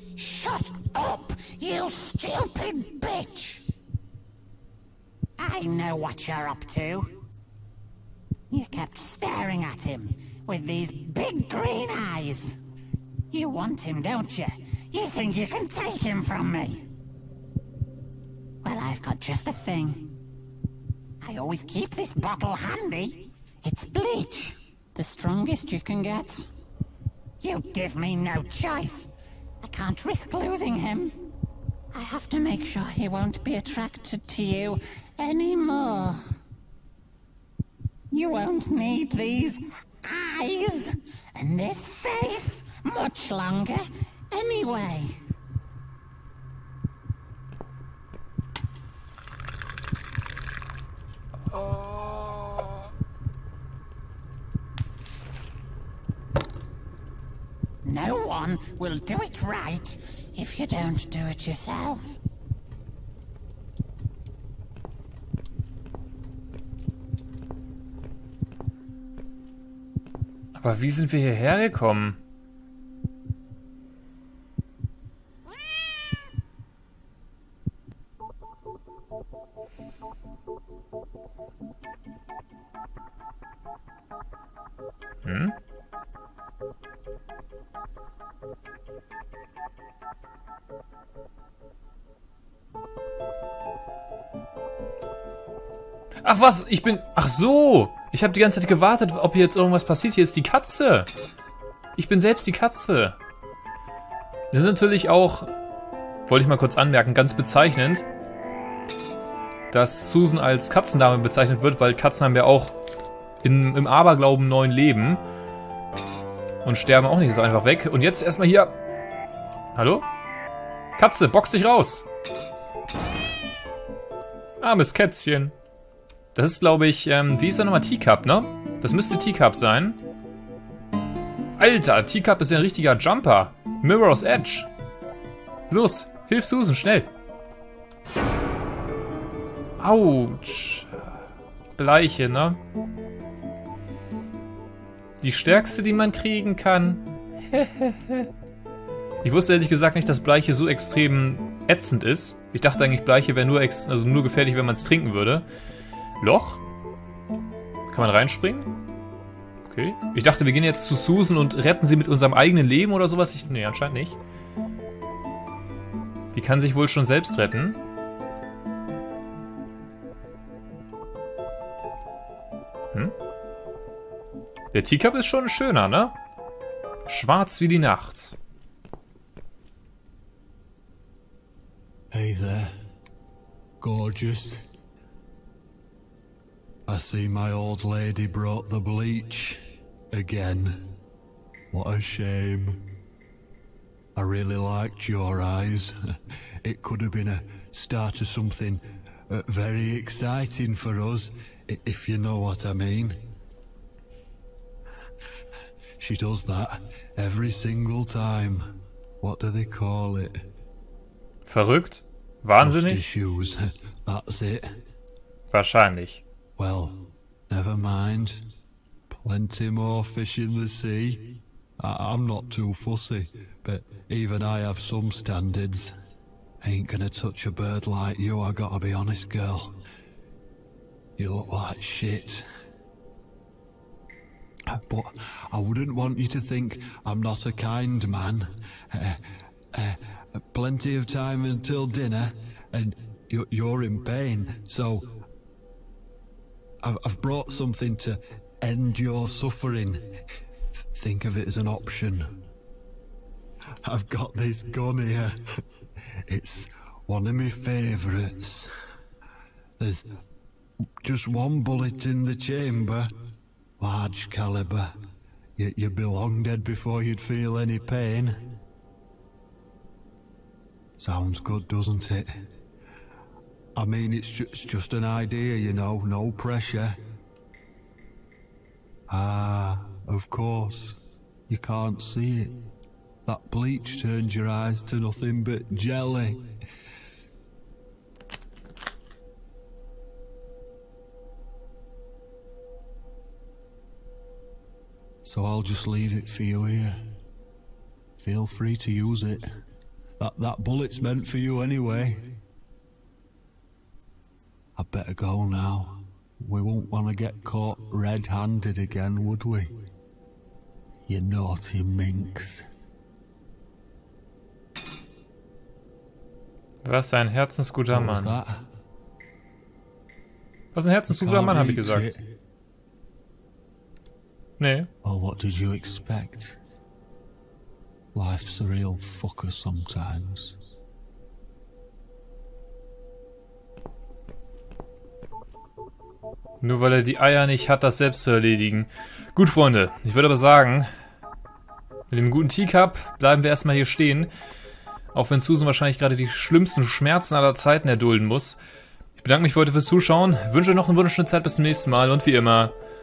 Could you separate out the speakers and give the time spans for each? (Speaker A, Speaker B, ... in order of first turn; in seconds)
Speaker A: 0.2-3.6, 5.4-7.0, 8.5-12.5, 13.3-16.8, 18.6-20.0, 21.2-26.4, 27.4-29.1, 29.6-31.1, 31.9-36.1, 38.1-43.8, 44.3-45.0, 57.8-62.1
Speaker B: 70.5-72.2, 85.2-85.5, 96.2-101.1, 102.0-103.2, 104.5-105.5, 106.3-108.0, 109.7-112.7, 113.4-115.2, 116.6-118.8, 119.7-120.0, 121.0-122.1, 124.6-125.5, 126.3-130.0, 131.6-134.7, 135.7-137.1, 139.8-141.0, 141.8-142.6, 145.2-148.3, 149.2-155.4, 156.2-156.6, 157.9-158.7, 159.6-164.2, 166.3-167.8, 174.7-176.2, 177.1-178.3, 211.4-213.0, 215.5-216.2, 316.8-318.4, 320.7-322.1, 324.6-324.9, 336.6-340.9, 342.1-344.3, 345.1-348.6, 349.2-352.7
Speaker C: 182.1-182.7, 183.8-184.6, 186.9-189.6, 190.1-190.8, 191.7-192.8, 194.2-195.9, 196.6-203.2, 206.0-208.7, 209.2-210.4, 212.5-214.7, 216.6-217.0, 217.5-218.4, 219.1-225.9, 226.6-229.8, 231.2-232.4, 234.7-239.2, 239.7-245.1, 246.8-250.1, 250.9-252.3, 253.8-255.4, 256.3-258.7, 259.8-260.1, 261.0-263.1, 263.8-265.0, 265.6-268.5, 271.0-272.3, 273.8-277.0, 279.1-282.6, 283.2-286.4, 295.2-297.0, 298.2-299.4, 300.2-302.3, 304.8-309.7, 311.1-312.6, 317.9-318.6, 321.1-322.2, 325.0-326.6, 328.1-330.6